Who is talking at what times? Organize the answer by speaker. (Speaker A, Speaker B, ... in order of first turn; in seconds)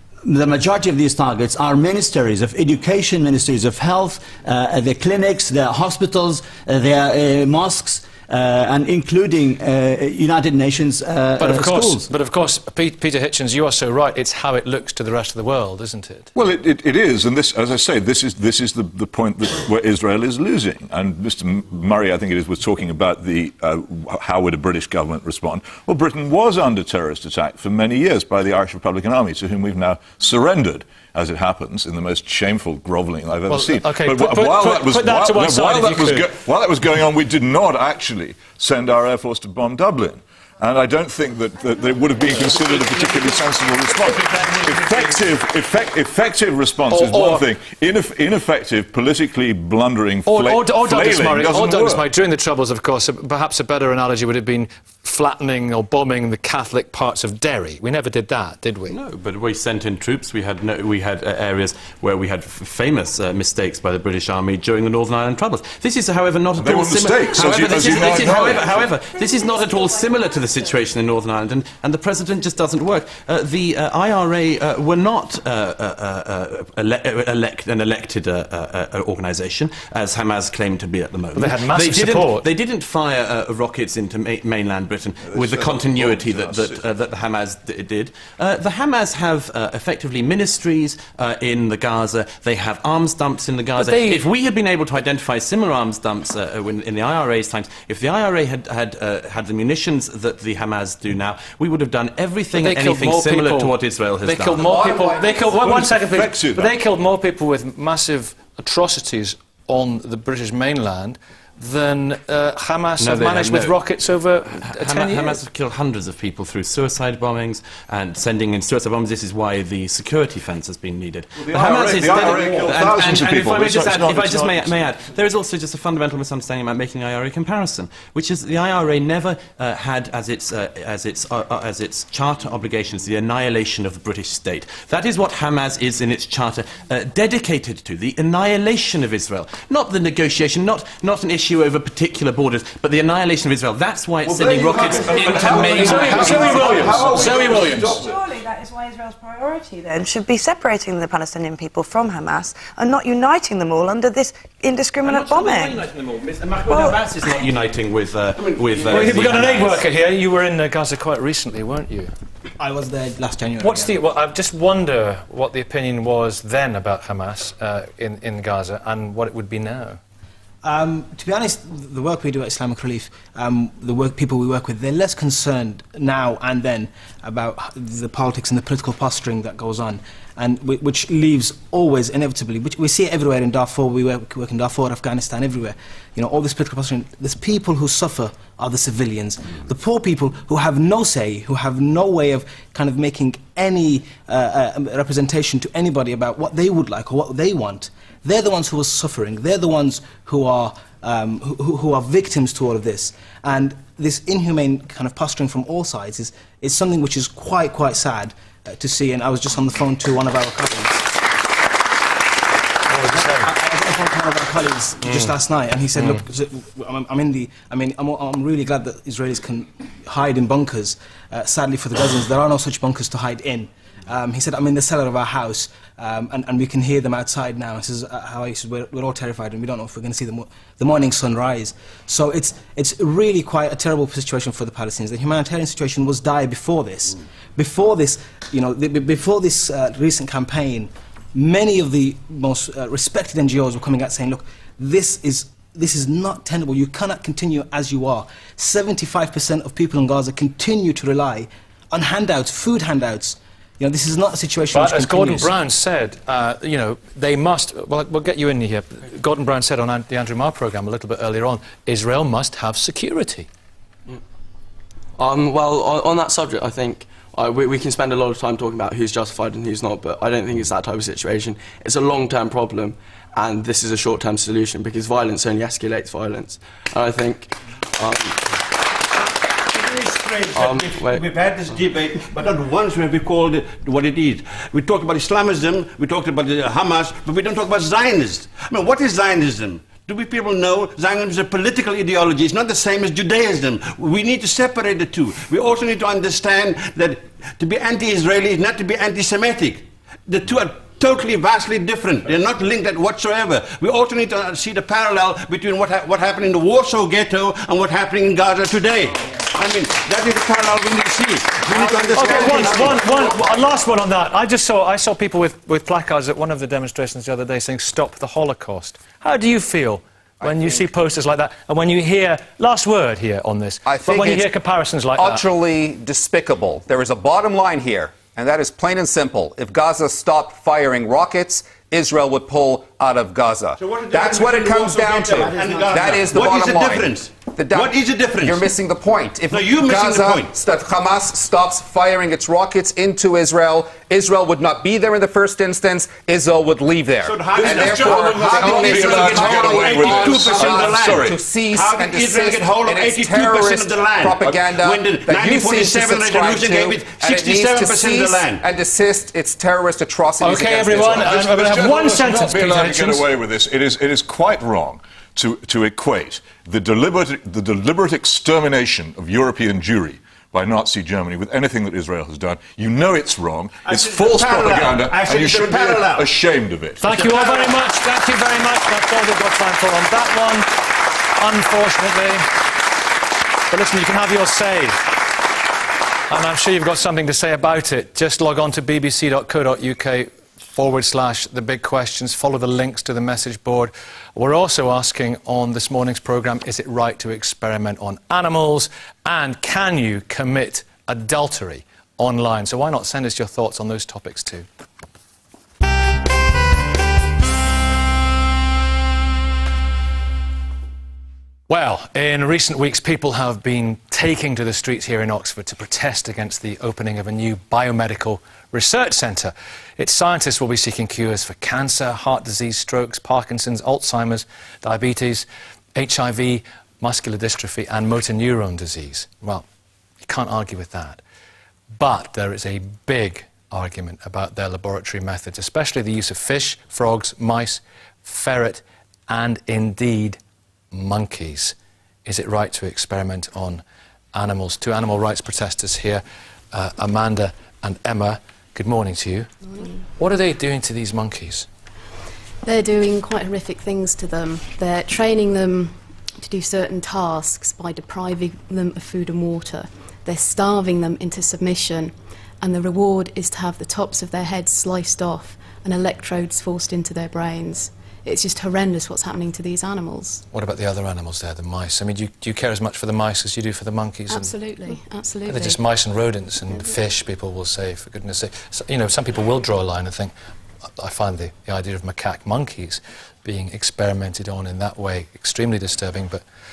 Speaker A: 0.2-12.1
Speaker B: 11.4-16.3, 33.5-36.3, 42.8-43.2, 44.2-45.2, 46.9-47.5, 50.3-59.0, 81.3-82.5, 93.8-94.2, 102.5-115.4, 145.5-148.0, 158.9-162.1, 163.6-170.0, 212.9-213.5, 215.0-215.3, 254.7-263.5, 312.1-325.4, 360.4-363.3, 377.0-382.5, 383.7-385.1, 386.3-404.7, 411.7-429.6, 430.2-431.2, 432.0-440.4, 440.9-443.8, 444.3-449.5, 450.2-451.7, 470.5-474.6, 475.5-480.3, 481.0-486.4
Speaker C: 16.4-52.1, 66.6-68.8, 85.3-86.8, 105.5-106.7, 121.4-124.8, 145.1-148.1, 347.5-351.4, 361.0-377.1
Speaker D: 58.9-104.7, 113.0-113.8, 114.5-147.1, 155.0-159.8
Speaker E: 68.7-70.8, 147.2-155.8, 156.7-157.0
Speaker F: 104.6-105.5, 323.9-324.5, 325.1-361.4
Speaker G: 122.2-122.9, 144.4-145.6, 146.2-147.3, 279.8-313.6, 333.8-338.7, 339.5-340.6, 347.2-358.6, 373.8-376.3, 377.1-377.7
Speaker H: 162.6-164.0, 170.6-211.1, 213.1-255.5
Speaker I: 265.2-278.4, 280.5-281.2
Speaker J: 452.6-470.5, 474.3-475.8